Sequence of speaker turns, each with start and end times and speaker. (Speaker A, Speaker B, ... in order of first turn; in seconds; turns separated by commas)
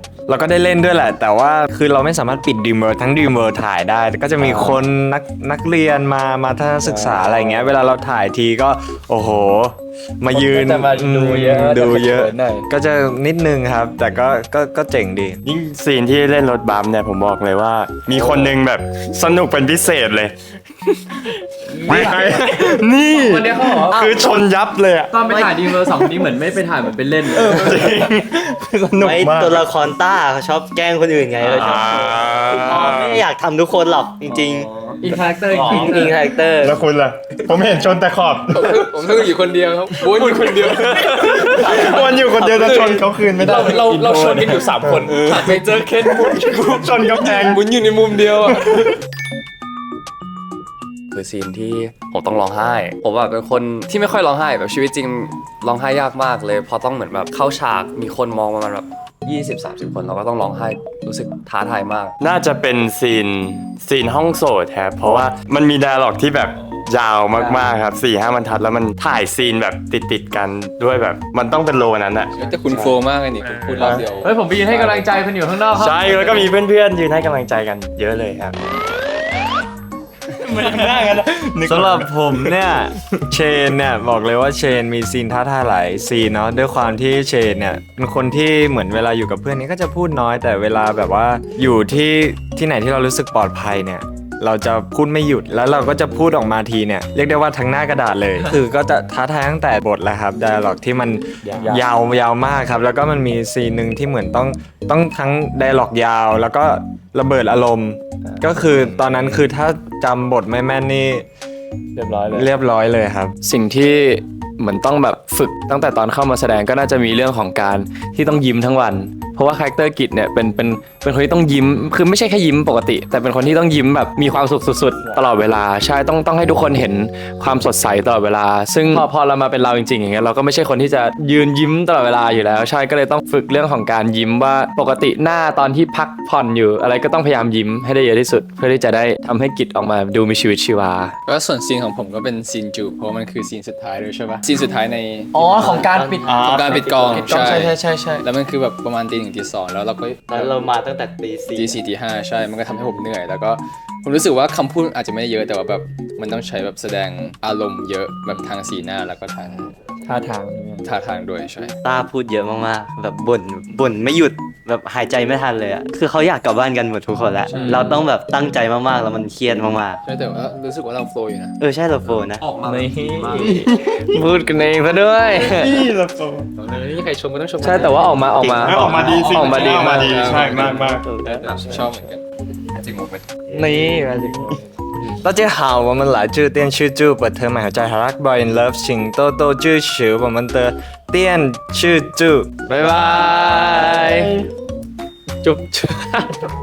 Speaker A: 0.3-15.4, Speaker B: 6.9-7.2, Speaker C: 10.3-12.7, Speaker B: 15.4-20.4, Speaker C: 18.1-18.6, Speaker C: 21.7-24.2, Speaker B: 21.8-26.3, Speaker C: 25.1-28.1, Speaker B: 27.3-29.7, Speaker D: 29.0-34.7, Speaker B: 31.5-33.2, Speaker C: 34.3-36.2, Speaker D: 35.5-36.8, Speaker B: 36.6-39.0, Speaker E: 38.5-48.7, Speaker B: 40.1-47.7, Speaker D: 42.3-43.1, Speaker C: 43.7-44.6, Speaker C: 45.5-45.8, Speaker B: 48.2-49.0, Speaker F: 51.1-62.1, Speaker B: 62.2-74.1, Speaker C: 67.3-67.7, Speaker E: 72.4-75.1, Speaker C: 74.2-76.5, Speaker B: 75.7-78.6, Speaker B: 80.3-83.1, Speaker A: 81.6-111.3, Speaker C: 108.6-109.4, Speaker C: 112.0-112.5, Speaker A: 112.3-113.4, Speaker C: 113.4-141.2, Speaker E: 141.3-150.6, Speaker C: 145.3-146.3, Speaker D: 145.4-147.7, Speaker C: 147.2-148.2, Speaker D: 150.3-151.8, Speaker E: 151.6-159.8, Speaker C: 160.1-160.8, Speaker E: 160.8-161.8, Speaker D: 161.8-170.0, Speaker E: 167.5-168.0, Speaker C: 167.5-168.0, Speaker E: 170.0-171.6, Speaker D: 171.6-172.4, Speaker F: 172.4-173.4, Speaker C: 172.7-175.8, Speaker B: 173.3-173.7, Speaker B: 175.3-176.5, Speaker E: 176.6-178.3, Speaker C: 177.6-180.3, Speaker D: 177.6-179.3, Speaker B: 178.6-181.1, Speaker E: 178.9-182.2, Speaker D: 180.8-181.9, Speaker D: 183.5-184.0, Speaker C: 183.5-184.6, Speaker A: 185.2-192.5, Speaker C: 192.7-194.4, Speaker C: 195.4-196.5